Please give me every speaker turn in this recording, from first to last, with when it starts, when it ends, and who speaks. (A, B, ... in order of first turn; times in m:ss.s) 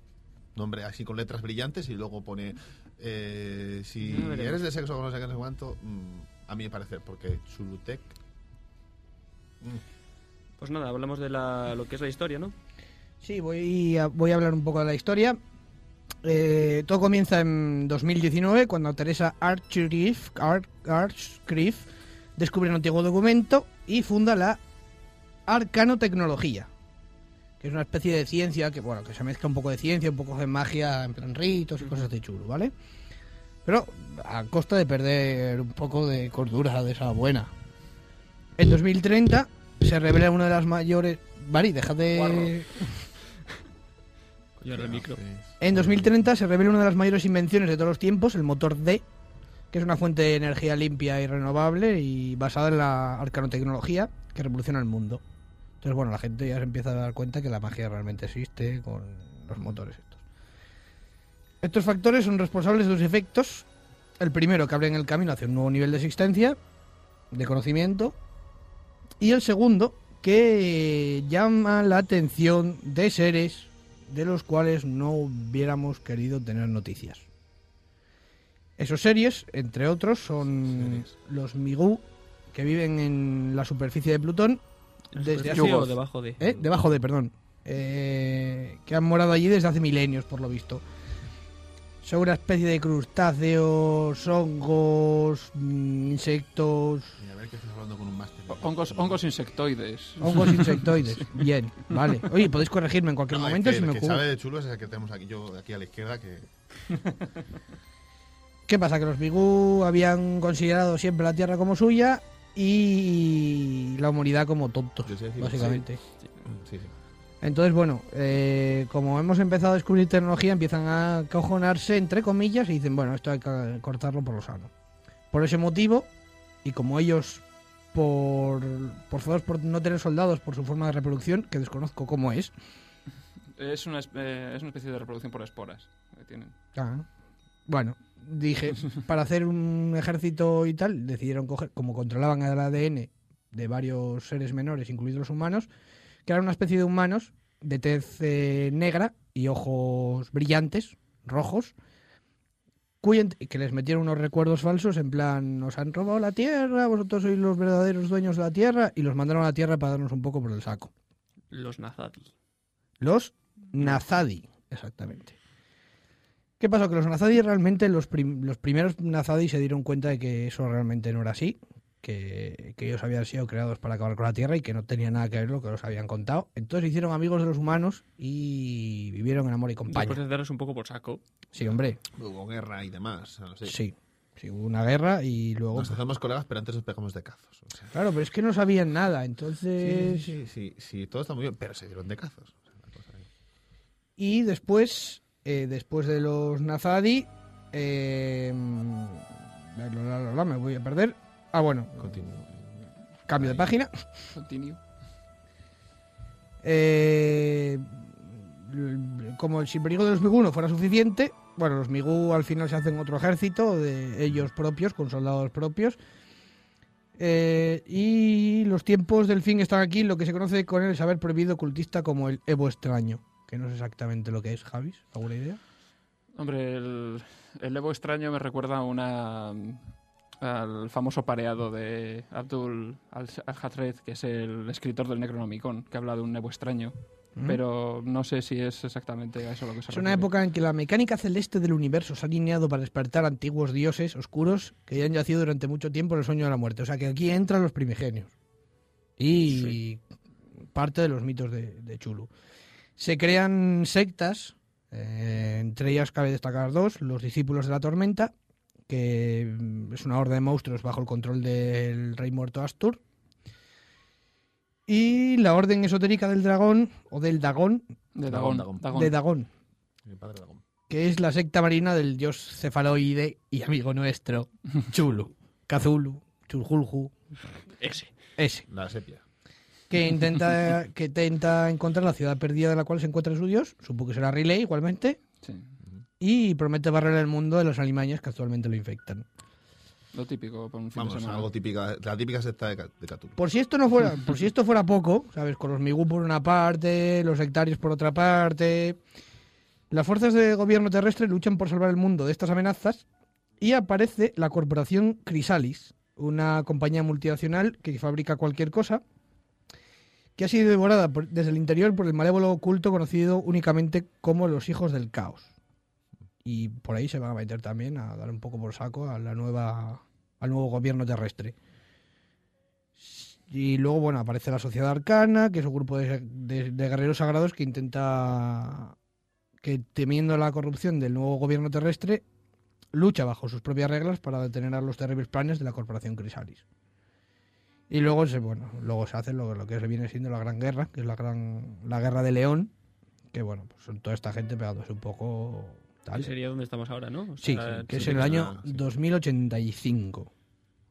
0:00.6-0:08.2 A
0:04.1-0:04.6 B
0:10.6-0:12.6 B
0:13.2-0:15.4 C
0:16.2-0:24.6 C
0:25.5-0:26.7 C
0:27.6-0:32.7 C
0:33.6-0:37.5 C
0:38.6-0:42.8 C
0:42.2-0:42.5 B
0:44.6-0:45.2 B
0:44.7-0:46.1 A
0:45.6-0:49.0 C
0:49.7-0:55.2 C
0:55.8-1:00.2 C
1:01.6-1:03.7 C
1:04.2-1:06.6 C
1:07.3-1:08.2 C
1:09.2-1:17.2 C
1:18.8-1:24.6 C
1:20.6-1:21.1 A
1:25.1-1:26.4 B
1:25.2-1:25.8 C
1:25.5-1:25.9 D
1:26.4-1:30.8 C
1:26.4-1:26.7 A
1:32.0-1:37.2 C
1:37.2-1:39.2 A
1:38.5-1:41.1 D
1:40.2-1:44.2 C
1:43.3-1:46.5 A
1:48.7-1:56.0 C
1:55.0-1:55.8 A
1:56.5-1:56.9 A
1:57.4-2:04.7 C
2:05.3-2:06.1 C
2:06.6-2:07.4 C
2:07.9-2:12.5 C
2:13.6-2:16.5 D
2:16.8-2:17.0 C
2:17.7-2:25.7 C
2:26.3-2:31.8 C
2:33.0-2:40.9 C
2:41.5-2:42.3 B
2:43.0-2:45.4 C
2:46.6-3:00.2 C
2:59.9-3:01.2 B
3:01.5-3:02.0 C
3:01.6-3:03.8 A
3:03.6-3:06.0 C
3:05.7-3:07.9 A
3:07.9-3:10.3 C
3:09.8-3:13.3 A
3:14.2-3:22.2 C
3:22.0-3:22.8 A
3:23.3-3:23.9 C
3:23.3-3:23.7 A
3:24.4-3:24.8 D
3:26.6-3:36.0 C
3:37.2-3:45.6 C
3:46.4-3:49.8 D
3:50.4-3:56.9 D
3:57.4-4:00.3 D
3:59.9-4:08.3 C
4:09.2-4:10.0 C
4:10.7-4:12.3 C
4:13.0-4:18.3 C
4:18.9-4:23.0 C
4:24.9-4:27.8 C
4:28.2-4:29.2 D
4:28.3-4:29.0 A
4:28.9-4:29.5 C
4:30.0-4:30.6 A
4:30.9-4:37.1 C
4:37.8-4:38.1 B
4:38.4-4:38.7 C
4:38.7-4:39.2 A
4:39.9-4:45.2 C
4:45.4-4:45.7 D
4:46.2-4:49.2 C
4:50.1-4:51.5 D
4:51.0-4:53.4 A
4:53.4-4:59.0 C
4:59.9-5:03.0 C
5:03.6-5:09.0 C
5:10.4-5:15.5 C
5:16.4-5:21.6 C
5:23.0-5:29.0 C
5:29.6-5:32.2 C
5:32.9-5:36.6 C
5:37.9-5:42.7 C
5:43.3-5:46.3 C
5:46.2-5:48.4 B
5:47.4-5:50.3 C
5:47.7-5:48.8 A